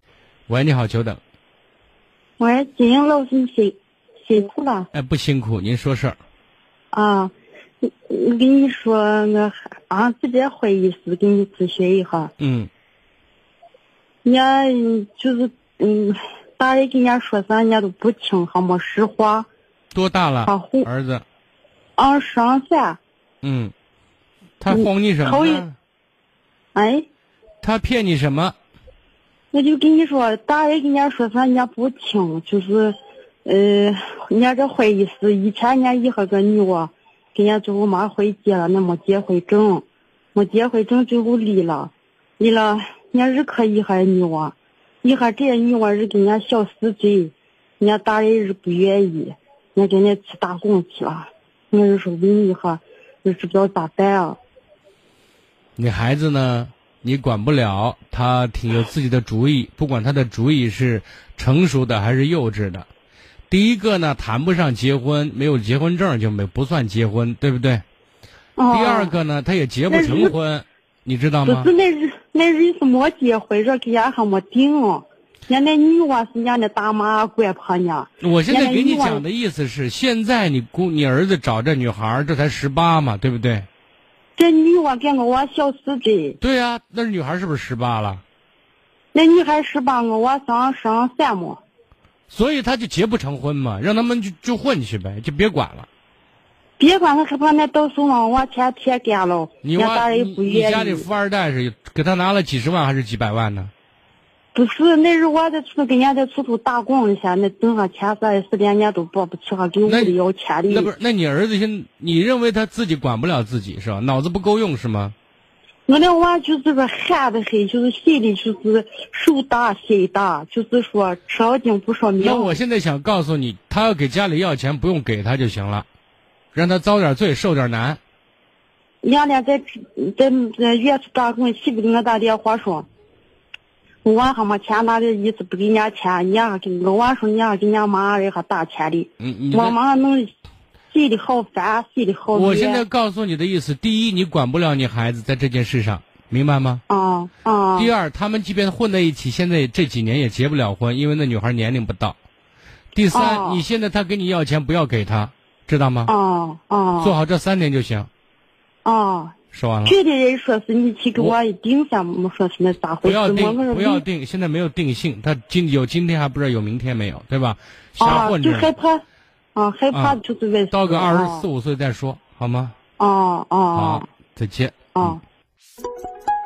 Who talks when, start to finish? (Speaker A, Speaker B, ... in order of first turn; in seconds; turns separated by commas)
Speaker A: 0.5-1.2, Speaker B: 2.4-4.9, Speaker A: 4.9-6.2, Speaker B: 6.9-12.3, Speaker A: 12.4-12.7, Speaker B: 14.2-19.5, Speaker A: 19.9-21.2, Speaker B: 20.5-20.9, Speaker B: 22.0-23.0, Speaker A: 23.4-23.7, Speaker A: 24.6-25.8, Speaker B: 24.7-25.7, Speaker B: 26.8-27.1, Speaker A: 27.6-28.6, Speaker B: 29.5-39.8, Speaker B: 40.4-54.4, Speaker A: 55.8-62.9, Speaker A: 63.5-67.8, Speaker B: 68.6-69.2, Speaker A: 68.7-71.7, Speaker B: 69.9-70.4, Speaker B: 71.5-79.2, Speaker A: 78.2-83.7, Speaker B: 84.4-86.4, Speaker A: 86.4-88.2, Speaker B: 89.1-91.6, Speaker A: 92.3-95.9, Speaker B: 96.8-101.1, Speaker A: 99.6-103.7, Speaker B: 104.5-110.9, Speaker A: 109.8-110.2, Speaker A: 110.7-115.2, Speaker B: 115.9-122.6, Speaker A: 122.2-125.9, Speaker A: 126.5-128.0, Speaker B: 129.0-132.9, Speaker B: 134.0-140.3, Speaker A: 139.2-139.8, Speaker B: 140.9-142.8, Speaker A: 142.3-146.8, Speaker B: 146.9-147.9, Speaker A: 147.8-152.2, Speaker A: 152.9-156.1, Speaker B: 153.1-153.7, Speaker B: 156.1-157.1, Speaker A: 157.0-158.1, Speaker B: 158.8-164.1, Speaker A: 159.5-160.0, Speaker A: 163.0-168.7, Speaker B: 168.0-169.0, Speaker B: 169.6-171.5, Speaker A: 169.9-170.2, Speaker A: 170.7-172.7, Speaker B: 173.0-174.1, Speaker A: 173.7-175.2, Speaker B: 174.9-175.2